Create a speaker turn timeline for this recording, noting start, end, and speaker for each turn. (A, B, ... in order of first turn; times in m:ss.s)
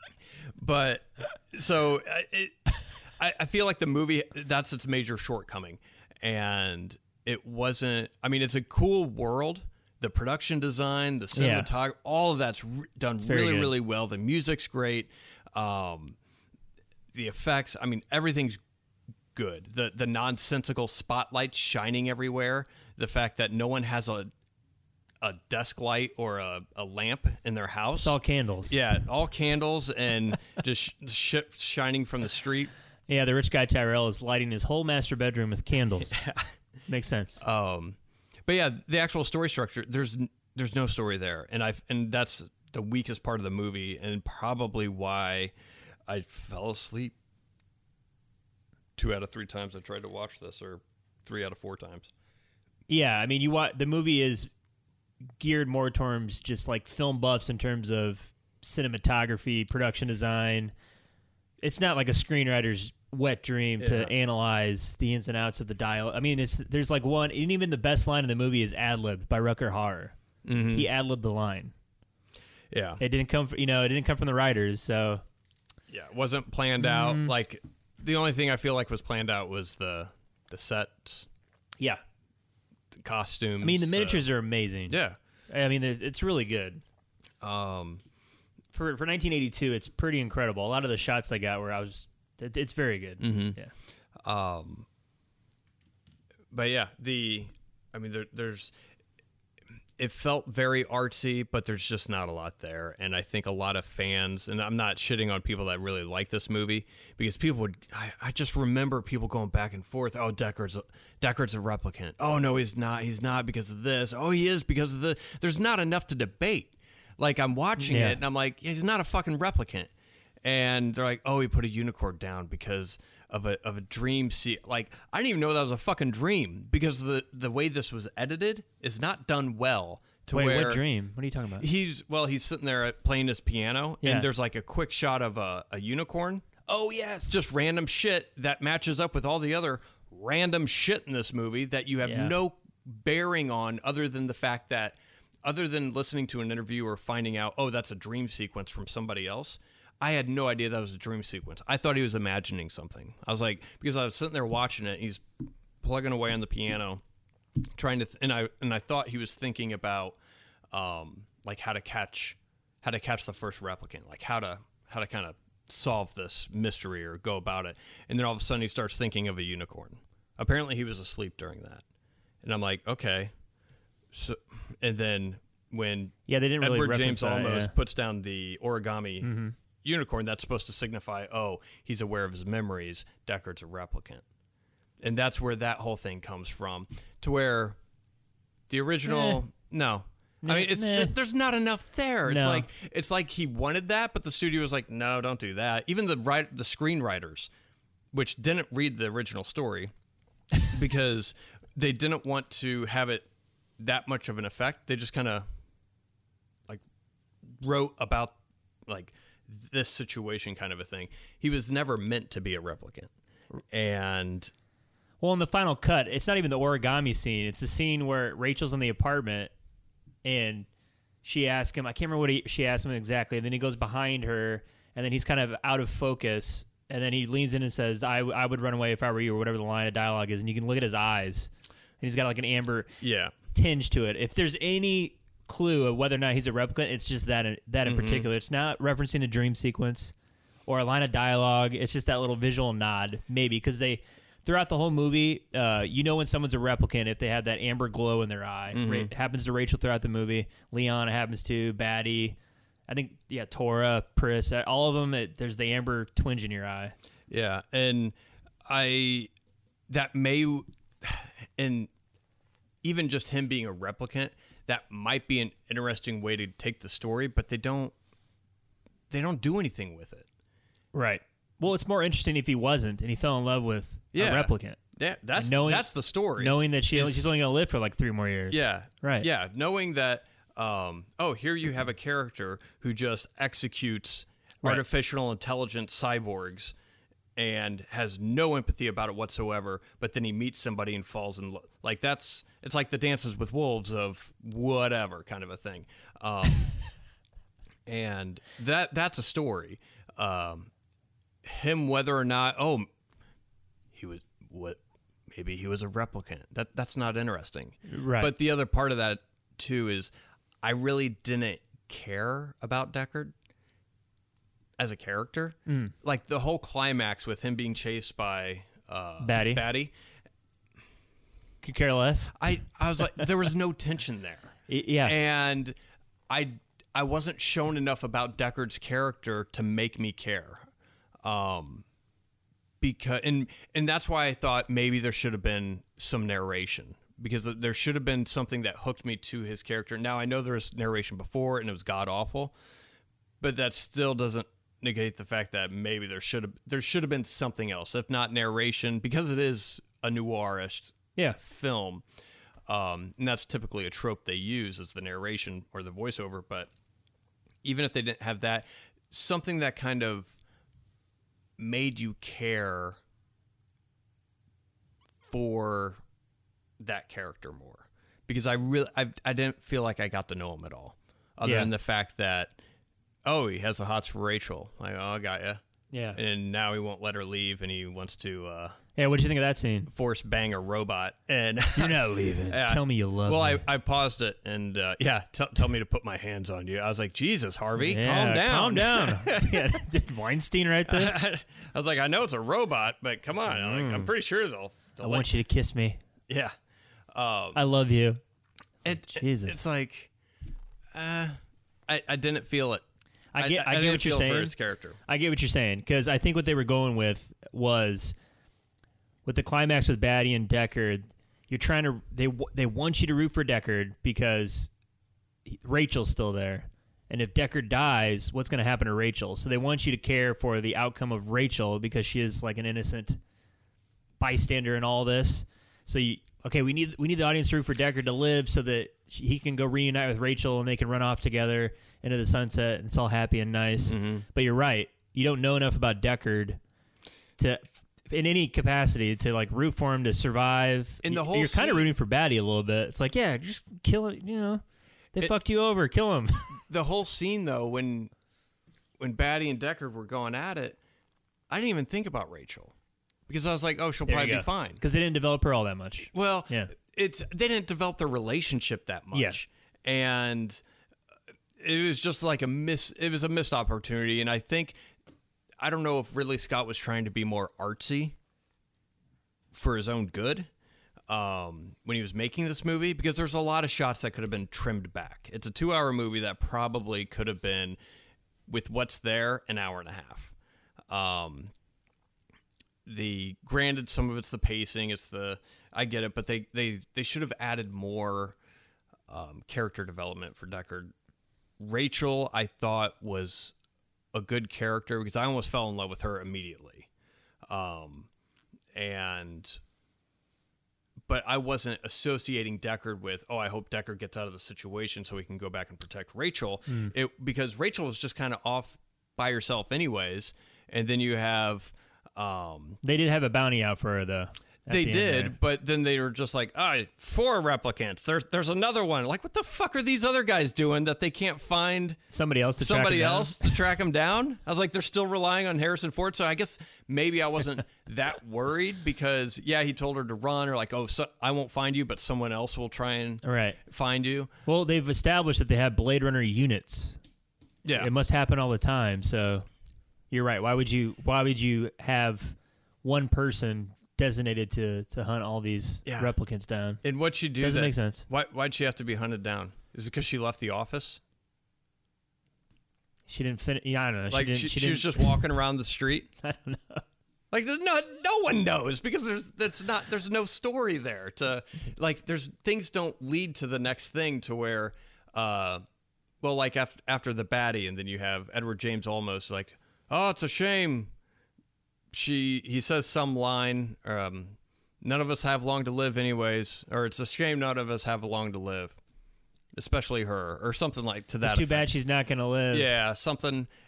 0:00.6-0:16.2 A
0:11.3-0:11.7 B
0:13.2-0:13.7 B
0:17.1-0:18.6 A
0:19.3-0:24.3 A
0:25.2-0:28.2 A
0:28.0-0:28.8 B
0:28.7-0:32.7 A
0:33.1-0:36.2 B
0:36.1-0:36.5 A
0:36.9-0:37.4 B
0:37.4-0:45.5 A
0:46.1-0:47.1 A
0:49.0-0:52.1 A
0:52.9-0:54.5 B
0:55.4-1:00.7 B
1:01.6-1:10.2 B
1:03.8-1:04.1 A
1:10.4-1:10.9 A
1:10.7-1:11.7 B
1:12.7-1:13.0 A
1:13.0-1:15.2 B
1:15.9-1:21.3 A
1:16.8-1:17.3 B
1:22.9-1:24.2 A
1:23.6-1:25.0 B
1:24.9-1:25.2 A
1:25.5-1:26.8 B
1:27.4-1:28.0 A
1:28.7-1:33.7 B
1:33.2-1:33.6 A
1:34.2-1:34.9 A
1:36.5-1:38.7 A
1:40.0-1:59.9 A
1:57.8-1:58.2 B
2:00.4-2:10.8 A
2:10.3-2:11.6 B
2:11.6-2:16.5 A
2:14.0-2:14.3 B
2:16.7-2:17.4 B
2:17.3-2:35.2 A
2:22.0-2:22.3 B
2:35.8-2:37.0 A
2:37.7-2:40.2 A
2:40.7-2:51.8 A
2:52.4-2:53.3 A
2:54.1-2:59.3 A
2:56.3-2:57.7 B
2:59.2-2:59.5 B
2:59.8-3:04.2 A
3:05.0-3:07.8 A
3:08.7-3:17.5 A
3:09.0-3:09.4 B
3:10.4-3:11.1 B
3:12.2-3:12.7 B
3:18.1-3:19.9 A
3:20.7-3:23.3 A
3:23.8-3:25.4 A
3:27.5-3:33.1 A
3:33.7-3:34.5 A
3:35.2-3:39.5 B
3:40.2-3:40.7 B
3:41.2-3:51.5 B
3:52.0-3:52.9 B
3:53.0-3:53.3 A
3:53.5-4:00.1 B
3:57.8-3:58.3 A
4:00.7-4:12.4 B
4:08.7-4:09.1 A
4:12.9-4:16.9 B
4:17.3-4:18.1 A
4:18.6-4:19.3 A
4:19.9-4:21.9 A
4:22.8-4:27.9 A
4:29.1-4:30.3 A
4:30.9-4:34.8 B
4:34.1-4:37.3 A
4:35.4-4:39.3 B
4:38.5-4:46.7 A
4:47.4-4:56.7 A
4:57.8-5:00.7 A
5:01.4-5:02.9 A
5:03.9-5:10.1 A
5:07.9-5:08.3 B
5:10.6-5:13.3 A
5:14.8-5:19.9 A
5:15.7-5:15.9 B
5:19.2-5:19.6 B
5:21.6-5:22.6 B
5:22.3-5:25.8 A
5:24.7-5:25.2 B
5:26.3-5:30.6 A
5:31.2-5:31.8 A
5:32.8-5:42.5 A
5:43.4-5:52.0 A
5:52.7-5:56.7 A
5:57.6-6:00.3 A
6:01.6-6:03.0 A
6:05.2-6:06.0 A
6:06.8-6:12.6 A
6:11.4-6:11.7 B
6:13.2-6:15.6 A
6:15.9-6:16.2 B
6:16.1-6:18.8 A
6:19.0-6:19.9 B
6:19.9-6:29.8 A
6:21.7-6:23.6 B
6:27.8-6:31.2 B
6:30.8-6:35.3 A
6:33.5-6:34.1 B
6:35.0-6:36.0 B
6:36.3-6:36.5 A
6:37.1-6:37.6 A
6:37.5-6:38.2 B
6:38.8-6:40.1 A
6:38.8-6:39.6 B
6:40.9-6:42.8 A
6:43.3-6:44.5 B
6:43.4-6:45.0 A
6:45.1-6:48.2 B
6:49.2-6:54.7 B
6:55.5-7:03.2 B
7:04.2-7:16.6 B
7:13.9-7:14.2 A
7:17.4-7:24.6 B
7:21.0-7:21.9 A
7:25.1-7:26.6 B
7:26.7-7:28.1 A
7:29.0-7:30.8 A
7:31.5-7:32.7 A
7:33.3-7:34.8 A
7:34.1-7:36.7 B
7:36.1-7:40.6 A
7:39.1-7:39.4 B
7:41.6-7:44.8 A
7:45.6-7:48.2 A
7:49.5-7:50.5 A
7:51.1-7:57.8 A
7:58.5-8:00.3 A
8:00.9-8:01.5 A
8:02.8-8:08.4 A
8:09.1-8:10.9 A
8:11.6-8:13.5 A
8:14.1-8:16.9 A
8:17.5-8:18.1 A
8:18.7-8:19.6 A
8:21.1-8:32.8 A
8:26.7-8:26.9 B
8:32.8-8:35.3 B
8:34.7-8:42.0 A
8:42.1-8:43.6 B
8:42.6-8:54.3 A
8:53.2-8:53.6 B
8:54.4-8:57.0 B
8:57.6-8:57.9 A
8:57.8-8:59.4 B
9:00.1-9:06.8 B
9:05.8-9:06.1 A
9:06.8-9:11.0 A
9:07.4-9:08.1 B
9:13.1-9:15.2 B
9:14.1-9:16.1 A
9:16.2-9:16.8 B
9:17.3-9:25.6 A
9:26.2-9:30.9 A
9:31.9-9:38.8 A
9:39.5-9:41.7 A
9:41.2-9:42.7 B
9:42.5-9:43.5 A